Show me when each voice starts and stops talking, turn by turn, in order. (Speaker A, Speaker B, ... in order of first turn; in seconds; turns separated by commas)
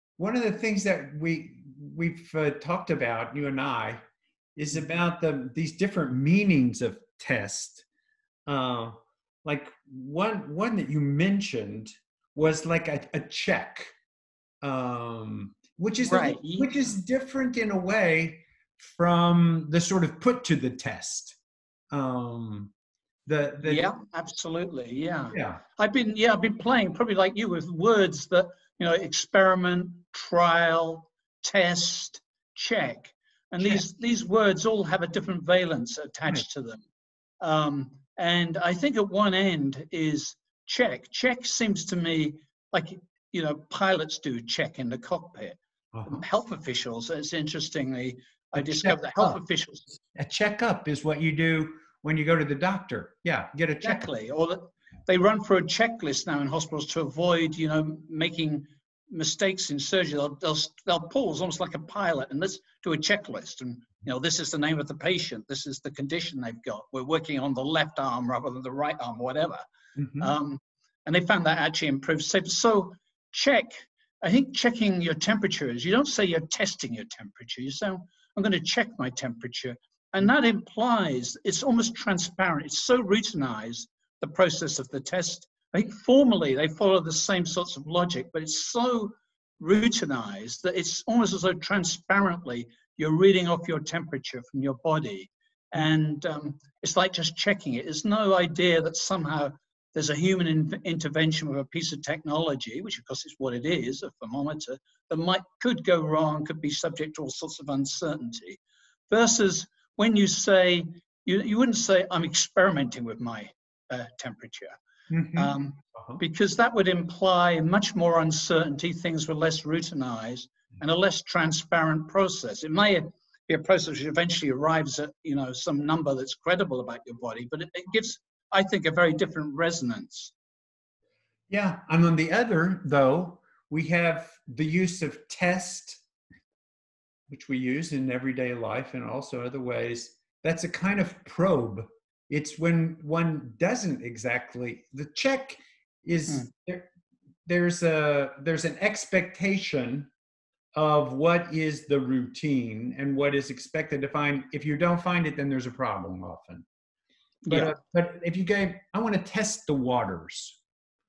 Speaker A: 0.2-4.0, Speaker A: 4.5-7.8, Speaker A: 8.5-13.9, Speaker A: 14.6-21.4, Speaker B: 16.0-16.7, Speaker A: 21.9-22.7, Speaker A: 23.2-23.9, Speaker B: 23.6-36.9, Speaker A: 25.3-25.6, Speaker A: 33.6-33.8, Speaker B: 37.4-49.9, Speaker A: 45.9-46.2, Speaker A: 48.5-49.4, Speaker A: 50.1-54.1, Speaker B: 53.8-69.6, Speaker A: 70.0-70.3, Speaker B: 70.2-114.8, Speaker A: 115.1-116.2, Speaker B: 115.3-130.3, Speaker A: 131.5-136.0, Speaker A: 137.3-146.9, Speaker A: 147.4-150.1, Speaker A: 150.7-156.6, Speaker B: 157.4-157.8, Speaker A: 157.5-160.6